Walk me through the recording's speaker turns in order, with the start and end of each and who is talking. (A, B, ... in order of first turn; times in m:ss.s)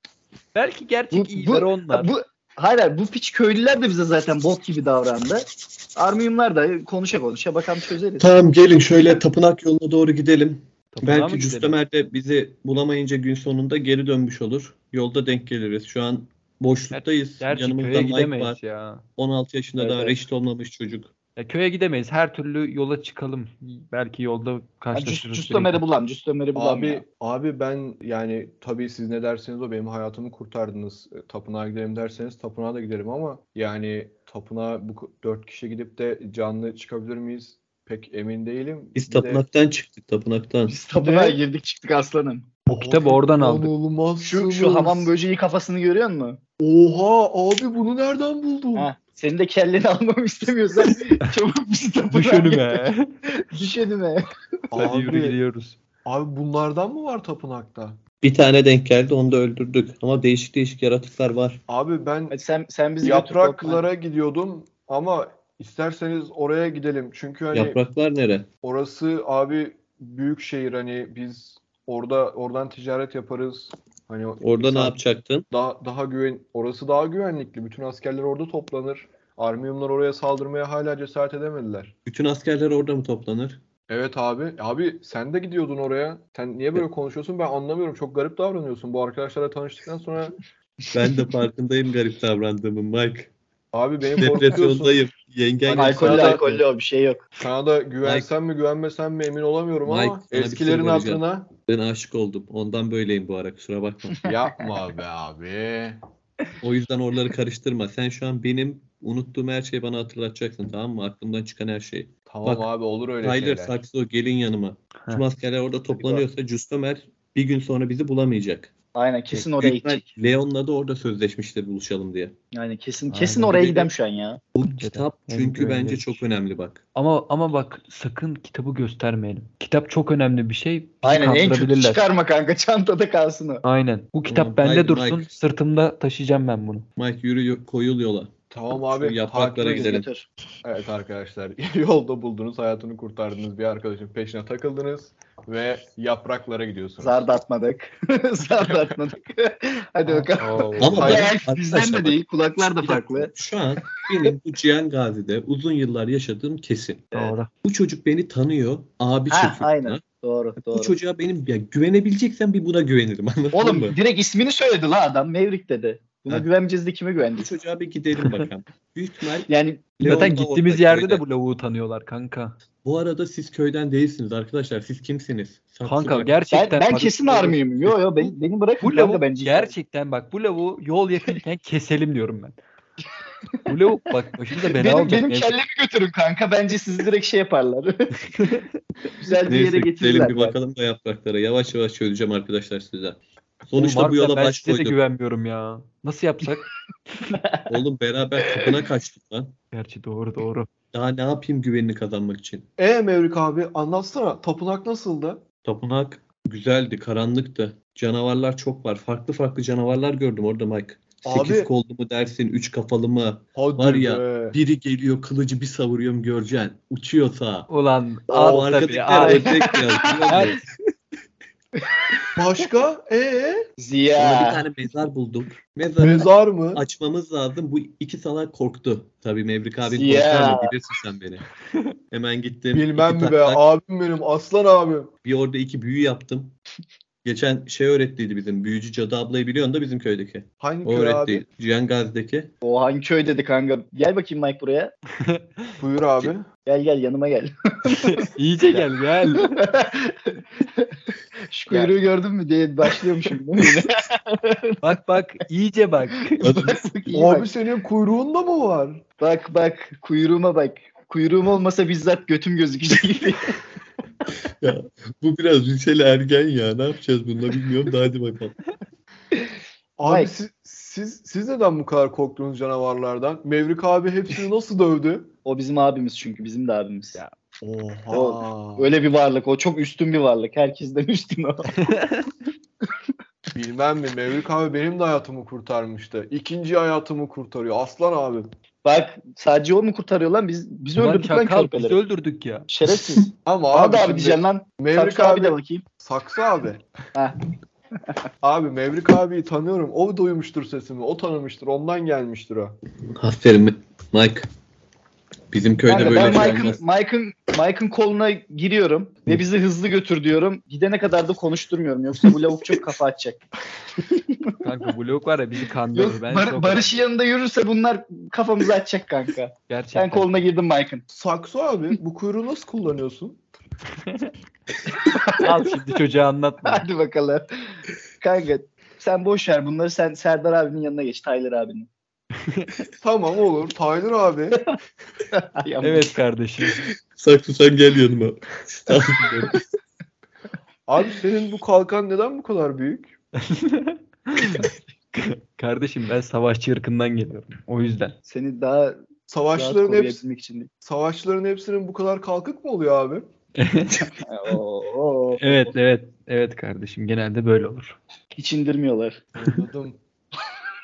0:00.6-0:02.1 A
0:01.1-0:08.3 B
0:08.2-0:18.6 C
0:10.9-0:11.8 A
0:16.9-0:19.0 A
0:19.2-0:21.1 C
0:19.8-0:20.2 B
0:21.4-0:25.8 A
0:24.9-0:27.0 B
0:26.6-0:39.4 D
0:39.0-0:40.8 C
0:40.7-0:42.5 B
0:40.9-0:41.4 D
0:42.7-0:45.1 D
0:42.7-0:43.7 A
0:44.2-0:46.4 B
0:46.6-0:48.9 D
0:48.8-0:52.8 B
0:52.1-0:53.1 A
0:53.4-0:54.2 B
0:54.7-0:55.4 D
0:54.7-0:55.8 A
0:56.0-0:58.0 D
0:58.2-1:01.6 C
1:01.7-1:02.4 D
1:02.3-1:03.8 B
1:03.0-1:07.8 D
1:07.5-1:08.5 C
1:08.6-1:15.0 D
1:14.4-1:15.5 C
1:15.5-1:22.0 D
1:22.1-1:23.6 C
1:23.9-1:30.4 D
1:30.9-1:33.3 C
1:33.7-1:35.0 D
1:34.2-1:36.4 C
1:35.7-1:36.6 D
1:35.7-1:37.2 B
1:37.4-1:41.5 D
1:38.0-1:38.3 C
1:39.8-1:44.2 C
1:44.2-1:46.0 D
1:46.6-1:52.7 C
1:52.3-1:53.8 D
1:53.2-1:58.7 C
1:59.0-2:00.1 B
1:59.3-2:02.3 C
2:02.5-2:04.4 B
2:03.1-2:03.8 A
2:03.6-2:03.9 C
2:04.6-2:06.8 C
2:04.7-2:06.2 A
2:07.0-2:12.0 A
2:11.0-2:13.6 B
2:13.6-2:16.9 A
2:14.3-2:15.3 C
2:17.0-2:20.1 C
2:18.5-2:19.9 D
2:19.6-2:20.3 B
2:20.6-2:27.3 D
2:27.0-2:33.3 B
2:30.1-2:31.2 A
2:30.6-2:31.3 D
2:30.8-2:40.0 C
2:37.1-2:37.5 A
2:39.3-2:41.0 B
2:40.6-2:44.0 C
2:43.5-2:47.5 B
2:47.4-2:51.2 C
2:49.5-2:49.8 B
2:50.0-2:52.6 A
2:52.8-2:56.3 C
2:55.8-2:58.3 A
2:56.5-2:59.7 B
2:58.8-3:02.6 A
3:03.7-3:05.6 A
3:04.7-3:08.1 B
3:08.4-3:08.6 A
3:09.2-3:10.6 B
3:09.5-3:15.0 C
3:13.8-3:16.7 A
3:17.3-3:17.7 B
3:17.7-3:19.6 C
3:19.7-3:20.7 A
3:20.9-3:22.6 C
3:22.8-3:25.4 D
3:25.6-3:37.7 C
3:31.2-3:31.7 D
3:33.6-3:34.6 D
3:37.7-3:39.6 A
3:38.3-3:40.6 C
3:39.2-3:40.4 B
3:40.3-3:40.6 A
3:41.8-3:42.2 B
3:42.4-3:43.7 D
3:43.8-3:44.6 B
3:44.2-3:51.4 C
3:46.0-3:46.8 D
3:49.9-3:50.7 B
3:52.1-3:53.6 C
3:52.7-3:55.1 D
3:55.2-3:56.6 C
3:57.2-4:02.5 C
4:00.6-4:01.4 D
4:02.6-4:04.9 B
4:05.8-4:06.5 D
4:06.6-4:08.3 B
4:07.9-4:09.6 A
4:09.4-4:10.9 B
4:11.5-4:14.8 B
4:14.8-4:16.5 A
4:16.4-4:17.5 B
4:16.4-4:16.8 C
4:17.1-4:19.0 D
4:19.2-4:23.5 B
4:24.6-4:28.6 C
4:30.0-4:35.3 D
4:35.4-4:37.2 B
4:37.6-4:38.9 D
4:38.1-4:41.8 B
4:41.8-4:42.3 A
4:43.5-4:48.5 D
4:48.8-4:52.0 B
4:51.0-4:52.7 A
4:52.7-4:55.8 B
4:53.4-4:56.8 D
4:58.4-5:02.8 D
5:03.2-5:04.5 C
5:05.5-5:06.8 C
5:05.9-5:13.4 B
5:06.0-5:06.6 D
5:14.2-5:14.6 B
5:14.6-5:17.0 A
5:15.9-5:21.0 B
5:19.7-5:20.3 A
5:21.1-5:23.4 D
5:25.0-5:25.6 B
5:25.4-5:26.8 A
5:26.6-5:27.5 B
5:28.2-5:31.9 B
5:33.0-5:34.6 D
5:35.3-5:36.1 B
5:35.8-5:36.9 A
5:37.1-5:39.6 C
5:40.9-5:43.1 D
5:43.4-5:48.1 A
5:48.3-5:49.0 B
5:49.3-5:50.2 D
5:49.5-5:50.7 B
5:50.8-5:53.3 D
5:53.6-5:54.1 A
5:54.2-5:55.7 B
5:55.4-5:58.0 A
5:58.4-5:59.2 B
5:59.4-6:00.0 D